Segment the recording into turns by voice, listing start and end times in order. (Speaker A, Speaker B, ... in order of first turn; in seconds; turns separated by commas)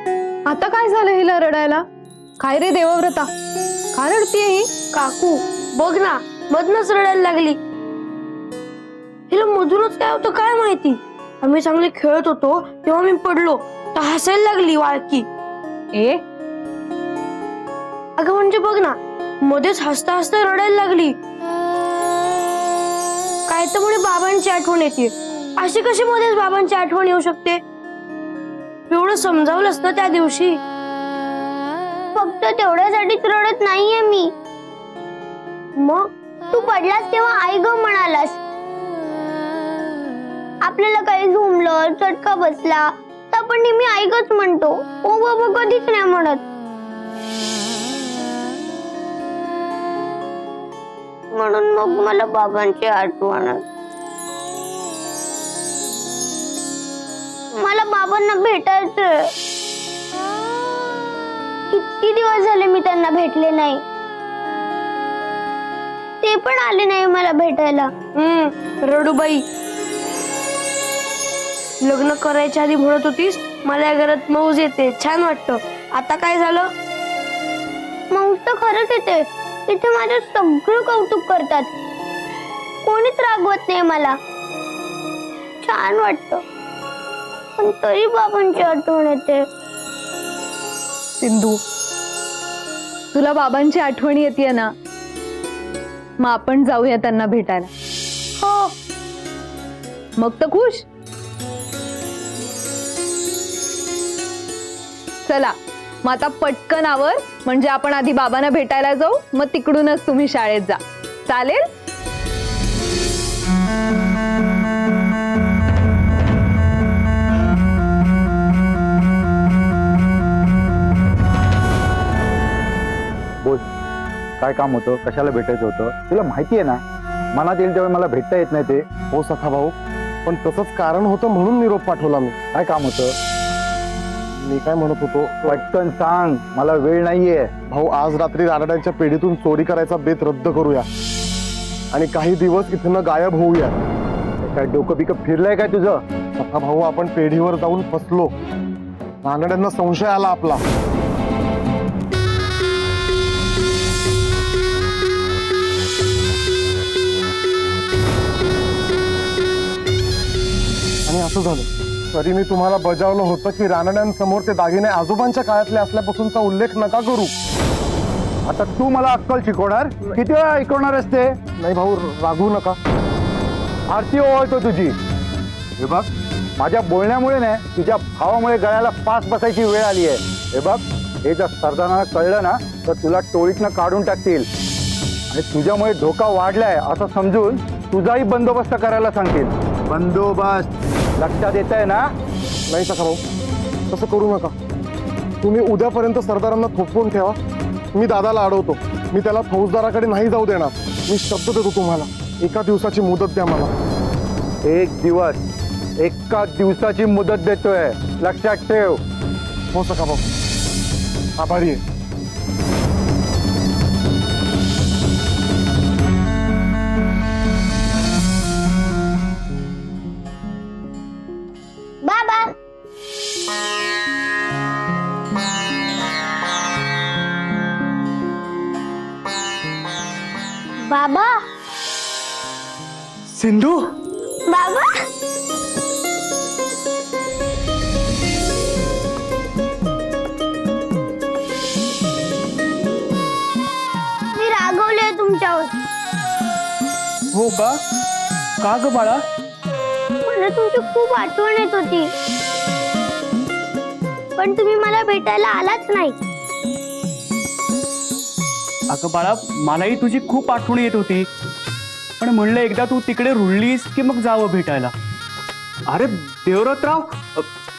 Speaker A: 0.5-1.8, Speaker A: 2.4-3.3, Speaker A: 3.9-4.7, Speaker B: 4.9-7.6, Speaker B: 9.3-15.3, Speaker A: 15.9-16.2, Speaker B: 18.2-21.2, Speaker B: 23.5-27.6, Speaker B: 28.9-30.6, Speaker C: 32.1-34.3, Speaker B: 35.8-36.1, Speaker C: 36.5-38.4, Speaker C: 40.6-46.4, Speaker C: 51.3-53.6, Speaker C: 57.5-59.1, Speaker C: 61.7-63.8, Speaker C: 66.2-67.9, Speaker B: 68.1-69.4, Speaker B: 71.8-76.7, Speaker C: 78.1-81.7, Speaker C: 82.8-84.2, Speaker C: 85.6-86.4, Speaker C: 87.6-89.4, Speaker A: 91.2-91.6, Speaker A: 93.1-94.7, Speaker A: 96.2-97.7, Speaker B: 98.4-98.7, Speaker A: 100.2-100.8, Speaker A: 105.2-111.6, Speaker D: 124.4-126.8, Speaker D: 127.3-128.8, Speaker E: 129.1-129.7, Speaker E: 130.2-132.3, Speaker D: 132.5-133.1, Speaker E: 134.4-135.6, Speaker D: 135.5-137.5, Speaker E: 137.7-140.8, Speaker E: 141.9-143.8, Speaker D: 144.4-146.0, Speaker E: 146.4-148.3, Speaker E: 149.2-150.6, Speaker E: 161.1-167.3, Speaker D: 168.4-171.3, Speaker E: 171.6-172.8, Speaker D: 173.9-174.9, Speaker D: 175.8-176.1, Speaker D: 176.6-184.4, Speaker D: 185.3-192.0, Speaker E: 192.7-193.2, Speaker E: 193.9-194.5, Speaker E: 195.4-197.4, Speaker E: 197.9-203.7, Speaker D: 204.7-205.4, Speaker D: 206.0-209.0, Speaker E: 209.7-210.2, Speaker E: 211.4-211.8, Speaker C: 222.0-222.5, Speaker C: 230.8-231.4, Speaker F: 233.3-233.9, Speaker C: 234.4-234.8, Speaker C: 244.3-245.8, Speaker F: 247.3-247.8, Speaker F: 248.6-249.2, Speaker C: 250.2-252.1, Speaker C: 254.4-256.2, Speaker F: 258.9-261.3, Speaker F: 262.2-264.9, Speaker F: 265.9-267.4